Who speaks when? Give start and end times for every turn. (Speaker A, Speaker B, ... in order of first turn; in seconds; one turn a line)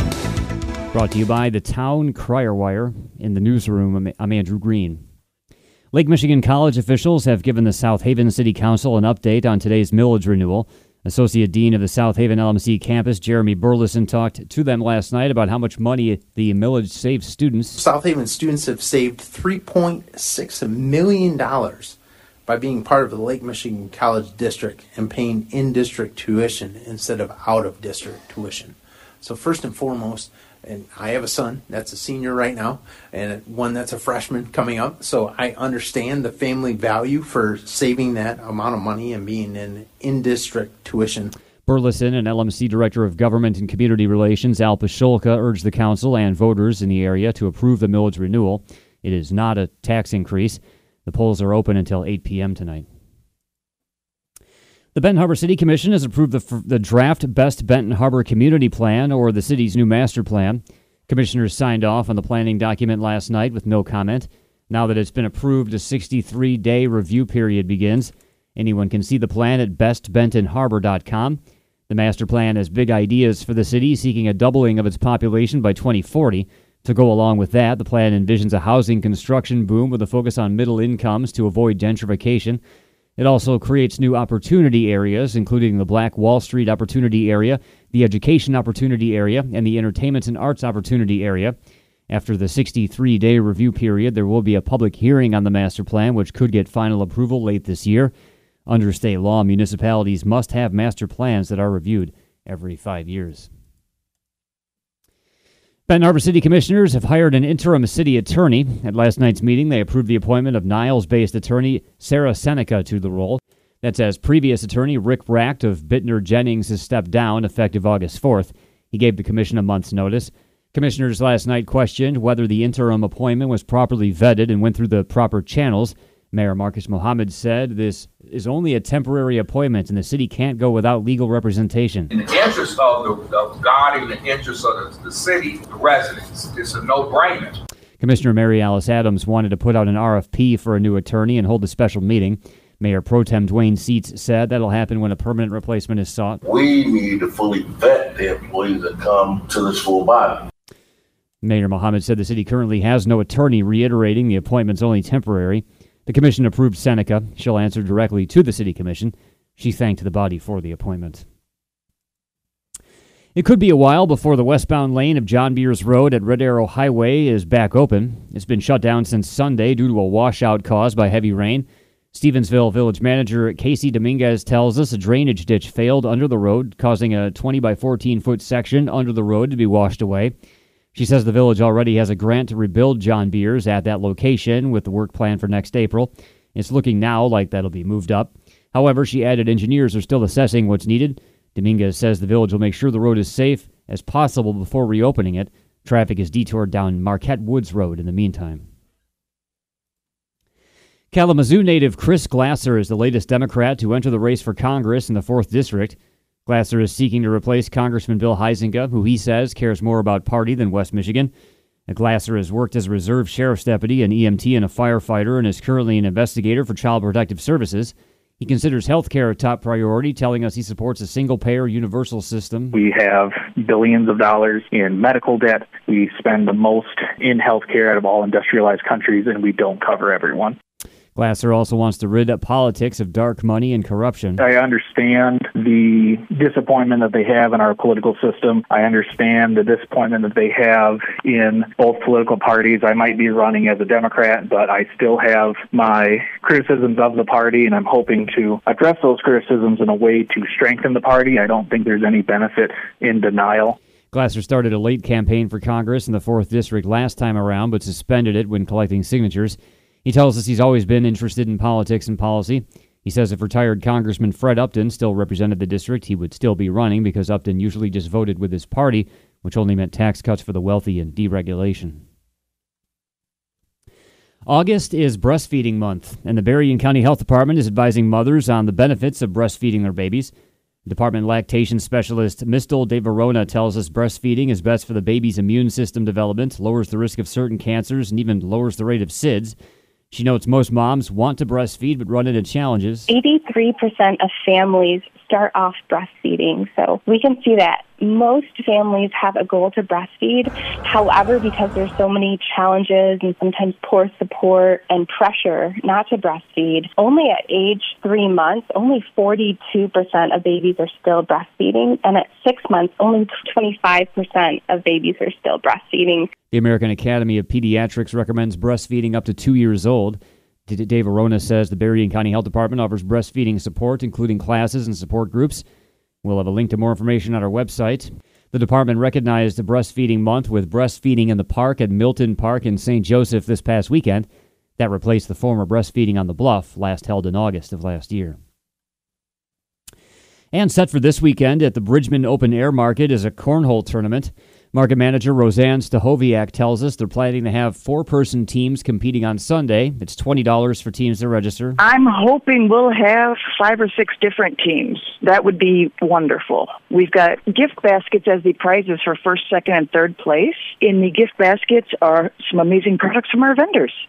Speaker A: 0.9-5.0
Speaker A: 5.9-17.8
Speaker B: 17.8-21.9
Speaker B: 22.5-41.3
Speaker A: 41.6-52.8
Speaker A: 54.9-82.6
Speaker A: 83.2-91.5
Speaker A: 92.1-98.1
Speaker A: 98.7-103.5
Speaker A: 105.9-132.1
Speaker C: 132.1-137.6
Speaker A: 138.0-146.4
Speaker D: 146.4-150.4
Speaker A: 151.4-161.2
Speaker A: 163.3-180.3
Speaker A: 180.9-198.6
Speaker A: 201.1-211.3
Speaker A: 211.9-222.8
Speaker E: 222.7-230.6
Speaker A: 231.1-234.4
Speaker E: 234.4-253.8
Speaker A: 254.1-272.0
Speaker A: 274.5-280.3
Speaker A: 280.9-289.6
Speaker A: 290.1-293.1
Speaker F: 293.1-316.3
Speaker A: 316.5-325.6
Speaker A: 326.2-338.4
Speaker A: 340.5-351.8
Speaker G: 351.8-363.9